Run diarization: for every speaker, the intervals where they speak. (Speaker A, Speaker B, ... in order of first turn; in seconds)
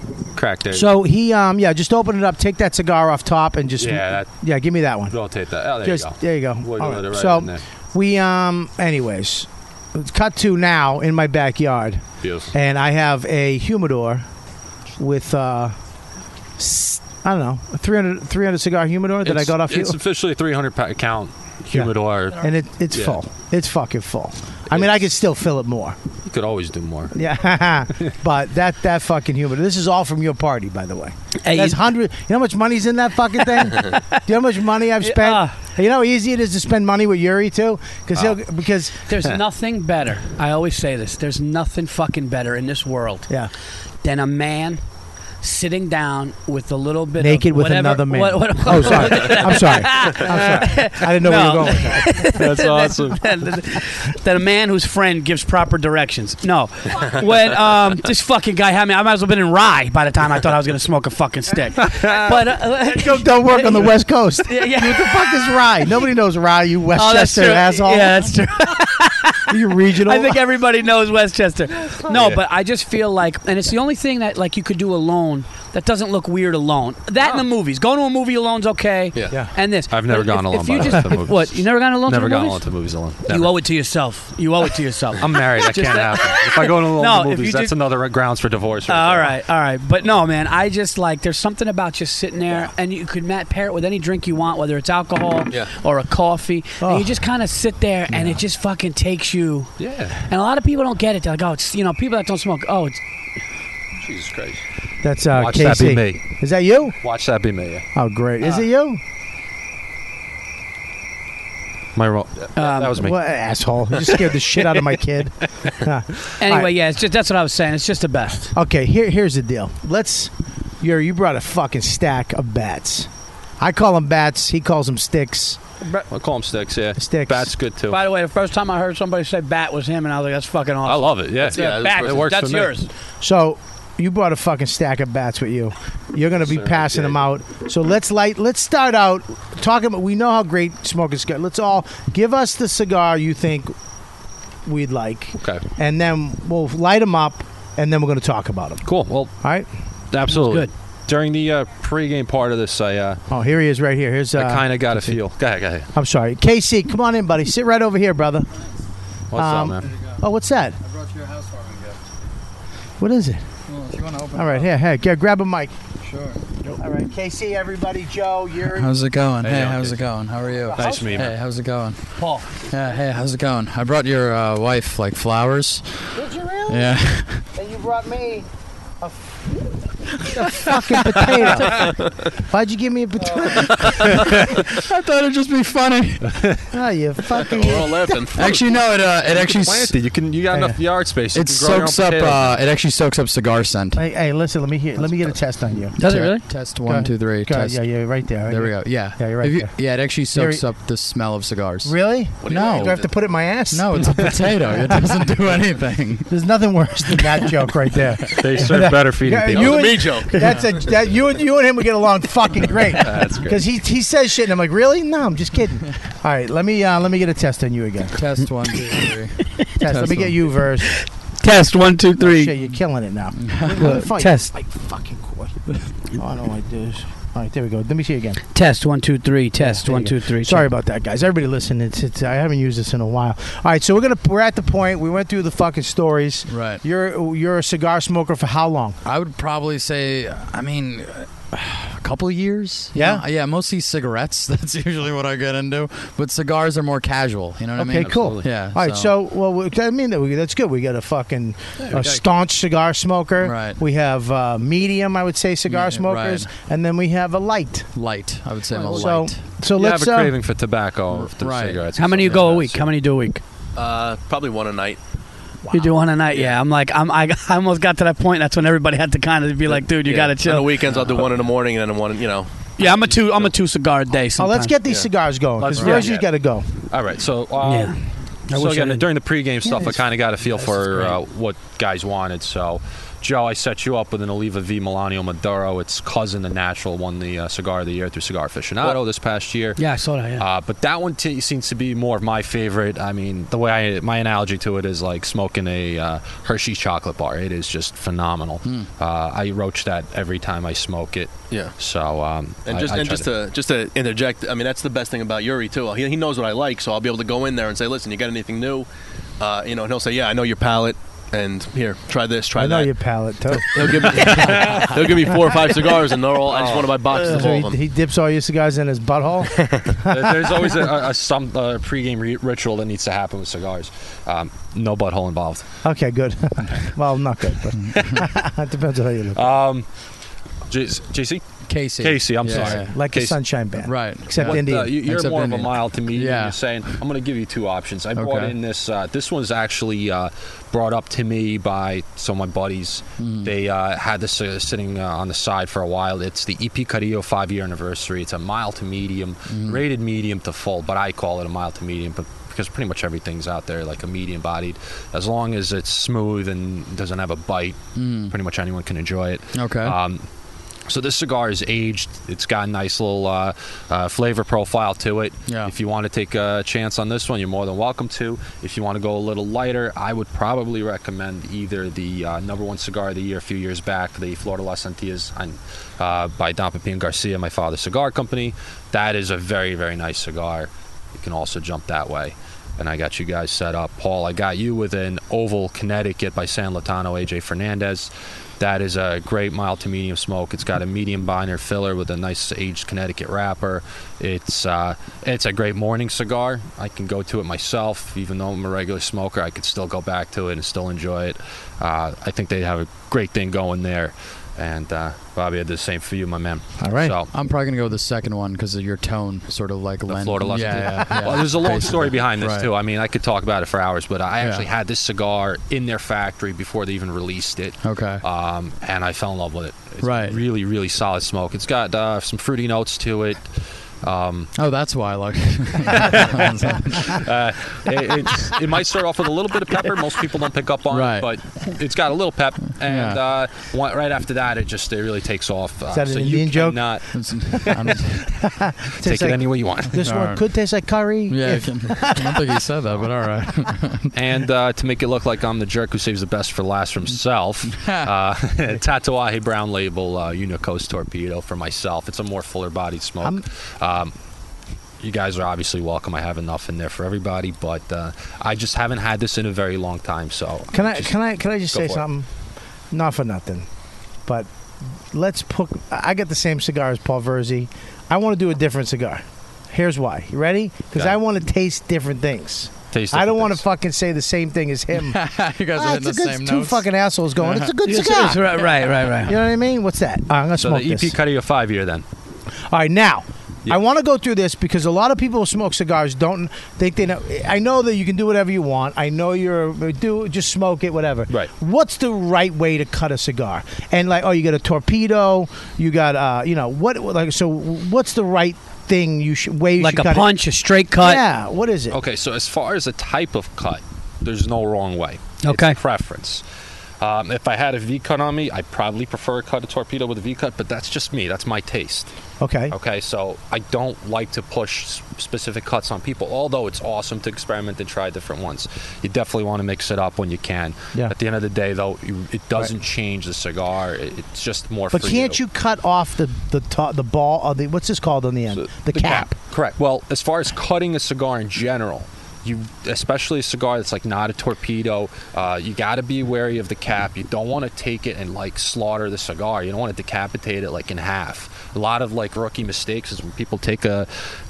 Speaker A: 0.3-0.9, 3.8-4.3, 5.1-7.6, 12.2-12.5, 19.2-23.2, 24.7-25.0, 26.3-27.1, 52.4-53.2, 61.8-62.3, 79.9-83.5, 85.2-89.3, 99.8-100.2, 104.0-104.7, 105.3-106.2, 107.0-107.9, 112.0-113.2, 126.1-128.0, 130.9-132.7, 136.4-137.2, 148.8-149.3, 150.1-153.2, 154.3-155.9, 159.3-160.0, 169.4-170.0, 170.7-171.3, 189.3-192.6, 208.3-210.0, 212.9-213.6, 248.0-248.4, 251.8-252.2, 258.7-259.1, 259.7-262.9, 275.6-276.3, 276.9-278.0, 278.5-289.8, 290.4-303.3, 314.1-315.1, 316.5-317.4, 320.1-325.7, 327.9-328.2, 329.4-329.9, 330.7-333.4, 334.3-360.2, 360.9-407.3, 410.1-424.5, 425.9-438.0, 439.0-440.1, 444.1-454.1, 455.0-461.1, 461.7-462.1, 472.9-473.6, 480.6-482.1, 501.9-506.4, 507.0-512.1, 512.7-525.4, 528.5-544.1
Speaker B: 0.7-5.2, 5.8-14.3, 15.0-15.7, 16.6-20.0, 21.7-26.0, 27.1-39.0, 47.2-52.4, 62.8-68.4, 69.5-70.5, 71.9-72.4, 96.8-97.1, 105.0-107.0, 108.0-109.0, 113.0-116.7, 118.5-125.6, 127.0-127.5, 133.2-143.7, 144.7-148.8, 149.4-149.7, 153.3-155.2, 155.9-158.5, 159.3-160.8, 163.0-163.4, 164.3-165.7, 166.8-168.9, 176.2-177.0, 177.5-178.5, 179.0-179.6, 180.2-184.2, 186.7-188.2, 190.5-190.8, 193.9-196.0, 196.8-200.7, 201.8-205.0, 206.3-218.2, 219.8-221.0, 222.2-228.4, 229.6-239.0, 242.9-243.2, 247.8-257.9, 258.9-260.3, 265.6-266.0, 274.4-276.7, 279.7-280.0, 312.6-314.1, 317.1-320.7, 325.8-329.5, 332.5-334.9, 406.8-407.1, 435.9-437.0, 438.4-442.5, 460.7-462.3, 462.9-463.7, 465.1-475.2, 475.7-481.1, 482.7-500.4, 501.0-502.0, 512.4-512.8, 524.9-529.3
Speaker C: 31.4-31.8, 33.4-34.2, 35.0-35.5, 39.1-43.3, 44.0-44.8, 45.4-63.9, 64.5-65.8, 67.0-82.6, 83.3-87.8, 88.9-103.0, 112.6-113.0, 116.4-118.5, 127.9-132.9, 150.3-150.7, 172.2-172.5, 196.0-196.4, 220.9-222.5, 223.8-224.5, 228.5-230.7, 262.0-263.4, 265.7-270.8, 272.8-274.8, 277.6-278.0, 278.5-279.1, 289.8-290.4, 477.8-479.4, 499.8-501.2, 505.4-505.8
Speaker D: 79.1-79.4, 131.4-132.3, 181.7-182.1, 187.4-188.7, 202.4-203.1, 209.5-210.9, 263.8-265.0, 269.7-272.5, 302.7-308.9, 309.4-312.9, 313.7-317.8, 319.5-319.9
Speaker E: 160.9-162.0, 163.7-164.7, 166.1-166.4, 168.7-172.0, 172.7-176.1, 176.7-177.4, 180.1-181.2, 183.8-186.6, 188.3-189.9, 191.3-194.0, 196.0-197.8, 198.5-203.0, 203.7-206.3, 218.1-220.5, 223.4-224.0, 236.5-236.8, 239.1-249.1, 253.4-253.8, 255.7-256.5, 257.9-259.4, 261.1-261.9, 298.6-298.9, 314.3-314.8, 327.8-328.2, 331.7-333.0, 333.8-336.6, 338.1-338.5, 343.2-343.5, 349.5-349.8, 358.0-358.4, 359.5-360.0, 365.5-365.7, 407.3-412.7, 414.4-414.7, 417.8-418.2, 420.0-420.4, 424.6-427.3, 430.9-431.3, 432.8-433.2, 437.1-438.3, 440.0-440.4, 441.3-444.1, 447.7-448.1, 475.0-476.8, 477.4-477.7